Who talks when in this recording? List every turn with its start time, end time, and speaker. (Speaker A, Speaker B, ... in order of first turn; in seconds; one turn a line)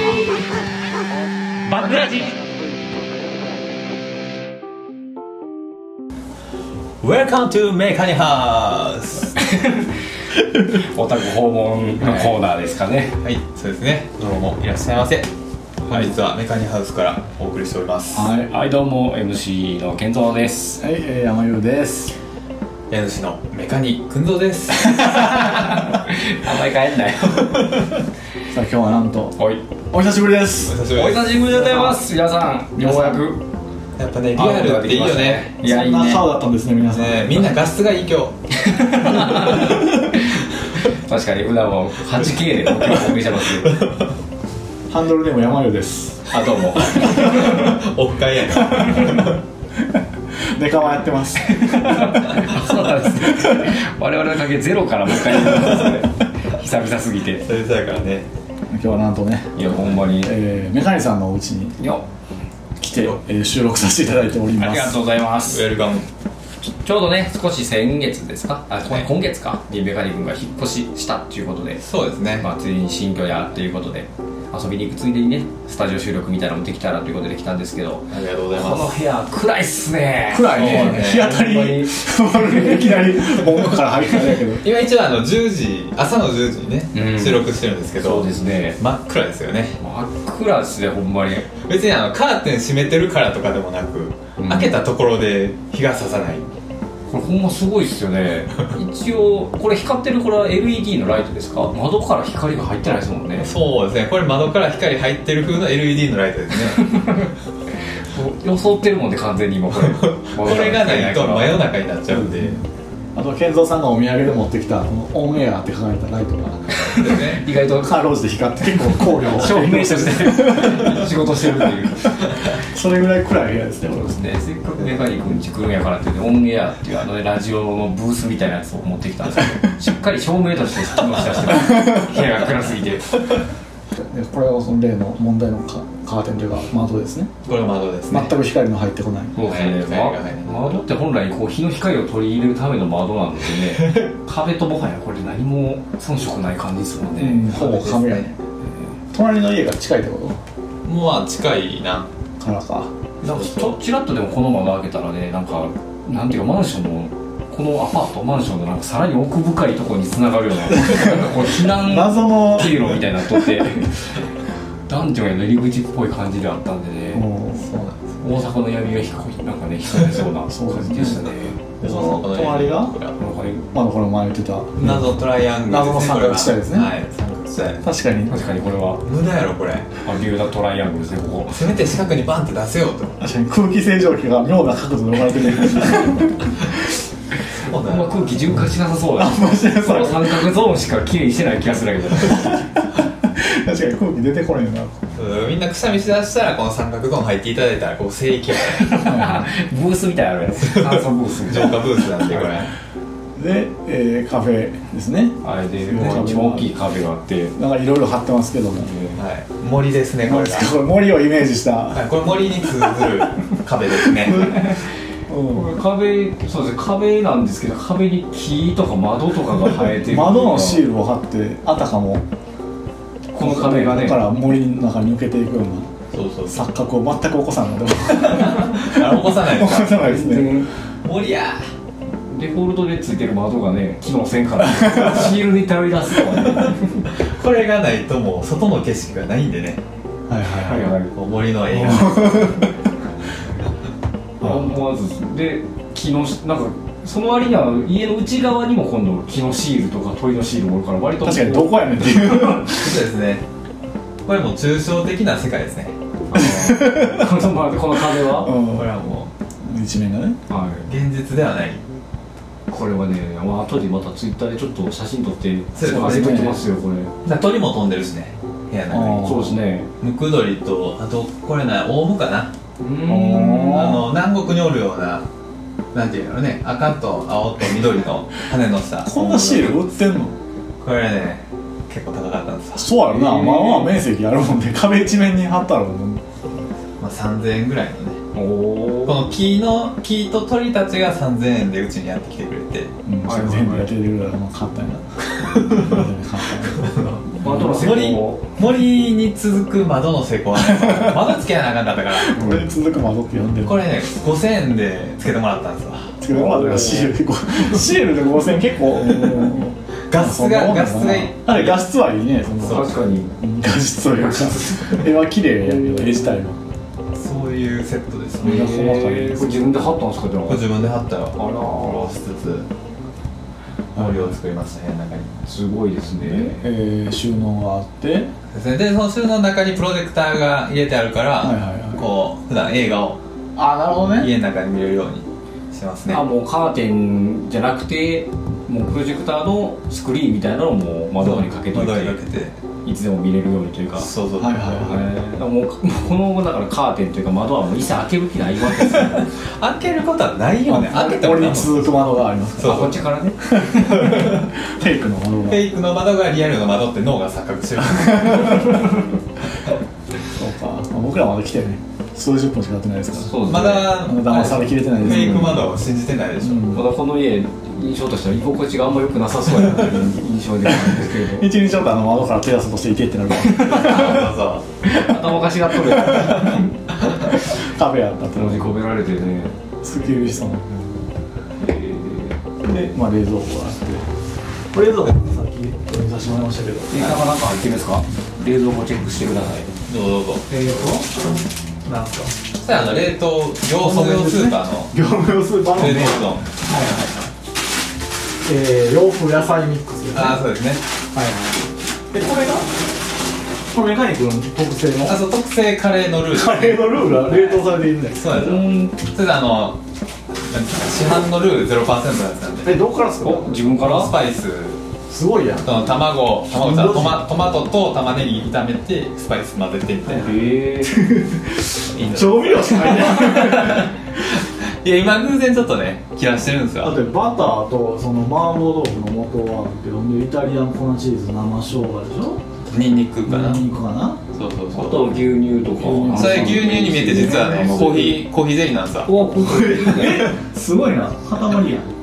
Speaker A: 1.8-2.3
Speaker B: 1.8-2.2
Speaker A: 7.0-9.4
Speaker B: 9.4-9.9
Speaker B: 10.6-13.2
Speaker A: 12.0-12.4
Speaker A: 13.2-15.3
Speaker A: 15.9-18.3
Speaker C: 18.1-18.5
Speaker B: 18.3-20.8
Speaker C: 20.8-22.1
Speaker A: 22.9-25.5
Speaker B: 25.0-27.8
Speaker C: 28.5-29.4
Speaker B: 29.4-29.6
Speaker C: 29.9-30.8
Speaker A: 30.7-31.9
Speaker B: 30.9-33.4
Speaker C: 32.8-33.2
Speaker A: 34.0-35.5
Speaker B: 34.4-36.3
Speaker C: 35.6-37.5
Speaker A: 36.9-38.4
Speaker B: 38.5-43.8
Speaker A: 42.7-44.1
Speaker C: 44.9-47.8
Speaker B: 46.3-47.5
Speaker A: 46.8-49.4
Speaker C: 48.6-49.3
Speaker C: 49.9-52.4
Speaker B: 51.5-57.5
Speaker C: 53.3-53.6
Speaker A: 57.5-58.3
Speaker C: 58.7-59.6
Speaker B: 59.6-60.3
Speaker C: 60.1-61.8
Speaker B: 61.8-62.0
Speaker C: 62.8-65.0
Speaker B: 64.6-65.7
Speaker A: 65.5-66.1
Speaker B: 66.8-71.8
Speaker A: 71.8-72.5
Speaker B: 72.4-83.1
Speaker A: 78.1-79.0
Speaker C: 80.3-84.7
Speaker A: 80.5-81.4
Speaker A: 84.6-89.8
Speaker B: 86.9-88.8
Speaker B: 89.8-91.5
Speaker A: 91.7-96.5
Speaker B: 94.4-94.8
Speaker B: 97.1-103.5
Speaker A: 103.4-107.2
Speaker B: 106.8-107.3
Speaker B: 108.1-111.6
Speaker A: 109.8-112.6
Speaker C: 113.2-116.8
Speaker B: 116.7-118.0
Speaker A: 116.9-117.4
Speaker C: 117.7-121.1
Speaker B: 119.0-122.3
Speaker C: 122.5-124.3
Speaker B: 124.0-133.2
Speaker C: 133.9-137.3
Speaker A: 137.5-138.4
Speaker C: 138.1-139.4
Speaker B: 139.4-148.3
Speaker A: 139.4-140.8
Speaker A: 143.8-144.1
Speaker C: 147.2-148.3
Speaker A: 147.9-148.2
Speaker C: 149.1-150.4
Speaker A: 150.8-152.1
Speaker C: 152.4-152.9
Speaker B: 153.2-164.2
Speaker A: 153.3-153.7
Speaker C: 161.6-162.9
Speaker B: 164.9-167.3
Speaker C: 167.1-167.7
Speaker A: 167.6-168.2
Speaker B: 168.2-171.5
Speaker C: 170.5-171.3
Speaker A: 171.1-173.2
Speaker C: 171.8-173.0
Speaker B: 173.2-173.7
Speaker C: 173.7-176.9
Speaker A: 174.8-177.8
Speaker C: 177.8-178.5
Speaker B: 178.3-179.0
Speaker A: 179.0-179.9
Speaker B: 180.0-181.6
Speaker A: 181.5-183.3
Speaker C: 183.2-186.7
Speaker A: 187.6-188.3
Speaker B: 187.8-192.7
Speaker C: 189.2-190.5
Speaker C: 192.3-195.0
Speaker A: 195.2-199.1
Speaker B: 198.6-202.6
Speaker C: 199.1-199.4
Speaker A: 200.6-202.7
Speaker C: 203.4-206.7
Speaker B: 205.4-207.6
Speaker C: 207.6-208.9
Speaker B: 208.8-209.2
Speaker A: 209.2-210.7
Speaker C: 210.2-212.1
Speaker A: 211.9-214.7
Speaker B: 214.3-214.8
Speaker C: 215.3-215.7
Speaker B: 215.5-220.9
Speaker C: 220.0-222.2
Speaker B: 223.3-224.3
Speaker C: 223.4-225.9
Speaker A: 226.1-226.6
Speaker C: 226.5-230.6
Speaker A: 228.3-230.0
Speaker B: 229.9-230.7
Speaker A: 231.0-231.7
Speaker B: 232.3-237.0
Speaker C: 234.8-235.1
Speaker A: 236.4-239.8
Speaker C: 240.3-240.9
Speaker B: 240.6-241.1
Speaker A: 241.1-242.7
Speaker C: 241.7-242.7
Speaker B: 244.4-252.6
Speaker C: 251.2-252.9
Speaker A: 252.6-253.4
Speaker A: 254.3-256.0
Speaker B: 256.3-258.6
Speaker C: 256.3-257.5
Speaker C: 258.2-259.0
Speaker A: 258.7-259.3
Speaker C: 259.6-260.4
Speaker B: 260.5-260.9
Speaker A: 260.9-261.8
Speaker B: 262.7-267.1
Speaker A: 265.8-266.6
Speaker C: 265.9-266.6
Speaker A: 267.2-269.5
Speaker C: 268.9-269.6
Speaker B: 269.2-269.9
Speaker A: 270.0-272.5
Speaker B: 272.8-274.0
Speaker C: 273.1-274.1
Speaker A: 273.6-275.3
Speaker A: 275.9-279.9
Speaker C: 279.0-280.4
Speaker A: 280.8-282.9
Speaker C: 282.8-286.2
Speaker B: 283.0-284.0
Speaker A: 287.0-288.2
Speaker B: 288.3-289.2
Speaker A: 289.1-292.9
Speaker C: 293.1-297.8
Speaker B: 293.2-293.9
Speaker A: 295.4-295.9
Speaker A: 296.8-302.6
Speaker B: 297.3-298.5
Speaker C: 300.6-301.3
Speaker C: 302.1-303.8
Speaker A: 303.6-306.2
Speaker C: 306.2-316.6
Speaker B: 306.3-307.1
Speaker A: 309.0-309.6
Speaker A: 310.1-311.8
Speaker A: 312.6-312.9
Speaker B: 312.6-313.4
Speaker B: 314.1-315.1
Speaker B: 315.6-316.2
Speaker A: 317.1-318.7
Speaker C: 318.4-319.6
Speaker B: 318.4-320.7
Speaker A: 320.5-322.7
Speaker B: 321.4-322.1
Speaker A: 323.9-325.4
Speaker C: 324.0-324.3
Speaker B: 325.4-326.7
Speaker C: 326.2-328.3
Speaker A: 328.5-333.2
Speaker C: 331.4-332.1
Speaker C: 333.6-334.3
Speaker A: 334.2-336.2
Speaker B: 336.1-342.2
Speaker A: 341.2-342.6
Speaker B: 342.8-344.1
Speaker A: 344.0-344.9
Speaker C: 344.4-345.0
Speaker B: 344.6-349.3
Speaker A: 349.2-353.0
Speaker C: 350.7-352.8
Speaker B: 352.6-353.5
Speaker C: 353.6-355.7
Speaker A: 353.8-354.5
Speaker A: 355.5-358.9
Speaker C: 358.4-358.7
Speaker C: 360.4-365.8
Speaker B: 363.2-364.0
Speaker A: 363.4-366.8
Speaker C: 366.4-366.8
Speaker B: 366.7-371.5
Speaker C: 370.6-374.3
Speaker B: 373.4-374.3
Speaker A: 373.7-374.6
Speaker B: 374.8-376.7
Speaker C: 375.9-376.6
Speaker A: 376.4-377.3
Speaker C: 377.4-378.7
Speaker B: 378.3-379.6
Speaker C: 379.8-380.7
Speaker B: 381.6-382.4
Speaker C: 382.6-384.1
Speaker C: 384.7-387.3
Speaker B: 386.9-389.7
Speaker A: 389.9-390.5
Speaker C: 390.5-391.1
Speaker C: 391.9-392.4
Speaker A: 392.6-394.9
Speaker C: 393.8-397.1
Speaker A: 395.7-396.5
Speaker C: 398.4-400.5
Speaker A: 400.1-400.8
Speaker C: 401.1-402.7
Speaker C: 403.7-405.2
Speaker A: 405.1-409.8
Speaker C: 406.3-408.2
Speaker B: 408.2-409.0
Speaker A: 410.5-412.7
Speaker C: 412.6-413.6
Speaker B: 413.2-414.1
Speaker A: 413.8-414.8
Speaker C: 415.1-415.8
Speaker A: 415.6-420.3
Speaker C: 416.5-417.3
Speaker B: 420.1-421.1
Speaker C: 420.8-423.9
Speaker A: 421.9-427.0
Speaker C: 426.8-432.4
Speaker A: 432.7-433.6
Speaker C: 433.3-434.2
Speaker A: 434.4-435.2
Speaker B: 434.7-438.3
Speaker C: 435.8-436.7
Speaker A: 435.8-439.1
Speaker C: 437.6-438.1
Speaker B: 439.1-440.3
Speaker C: 439.3-441.9